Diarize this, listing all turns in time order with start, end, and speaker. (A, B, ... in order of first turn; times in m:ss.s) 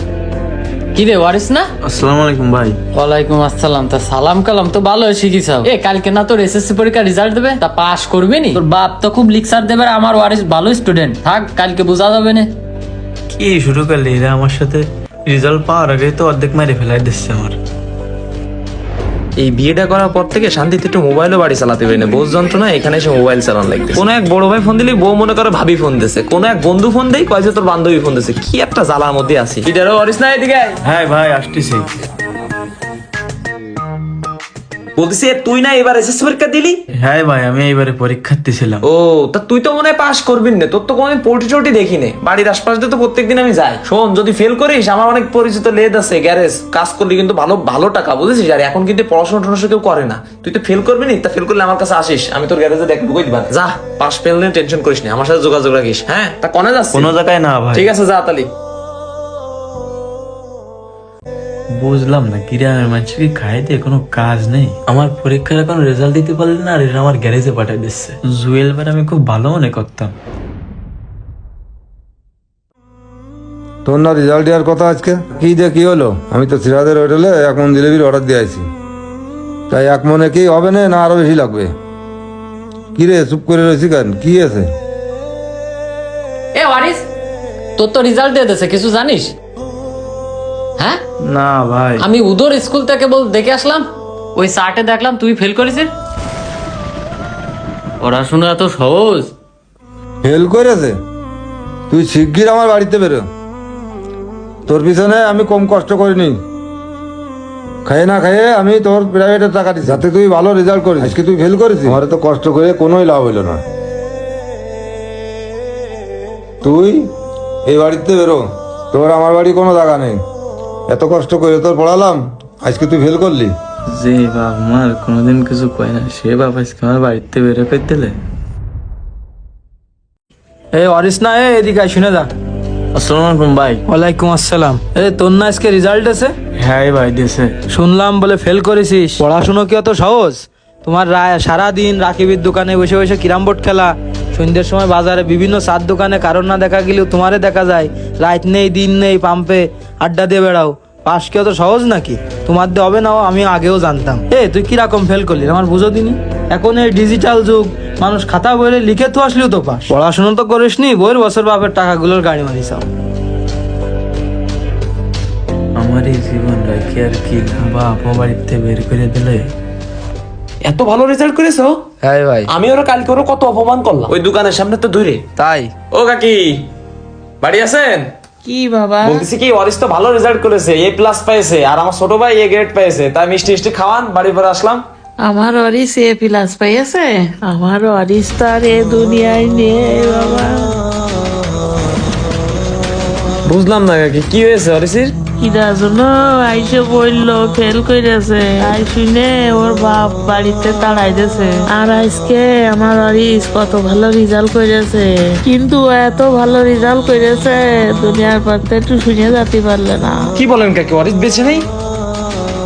0:00.9-0:01.7 A
0:01.8-0:02.8 B
0:02.9-0:12.5 A
0:13.3-0:17.6 B
0:19.4-0:30.8 C
0:30.8-0:31.9 B
0:35.0-0:36.8 C
0:36.9-0:38.8 B
0:38.8-0:57.1 C
0:56.9-0:57.8 B
0:57.7-0:58.5 C
1:01.7-1:10.1 B
1:13.8-1:18.7 D
1:19.7-1:21.7 D
1:22.9-1:24.7 D
1:26.5-1:27.0 A
1:27.8-1:29.3 A
1:31.2-1:32.1 B
1:32.0-1:35.9 A
1:38.0-1:39.3 A
1:40.2-1:40.9 D
1:41.9-1:43.2 D
1:44.7-1:46.4 D
1:47.8-1:53.6 D
1:56.6-1:57.0 D
1:57.7-2:00.2 D
2:00.9-2:03.5 D
2:03.9-2:08.2 B
2:10.7-2:12.3 E
2:12.9-2:13.8 B
2:13.9-2:16.3 E
2:16.6-2:17.5 B
2:17.7-2:42.9 E
2:45.8-2:49.5 B
2:50.6-2:51.9 C
2:52.1-2:52.4 E
2:52.5-2:55.2 C
2:55.9-2:56.7 C
2:57.4-2:58.1 C
2:58.4-2:59.3 F
2:59.0-3:04.8 C
3:05.2-3:10.7 F
3:13.4-3:15.1 C
3:15.4-3:30.2 F
3:30.4-3:31.6 C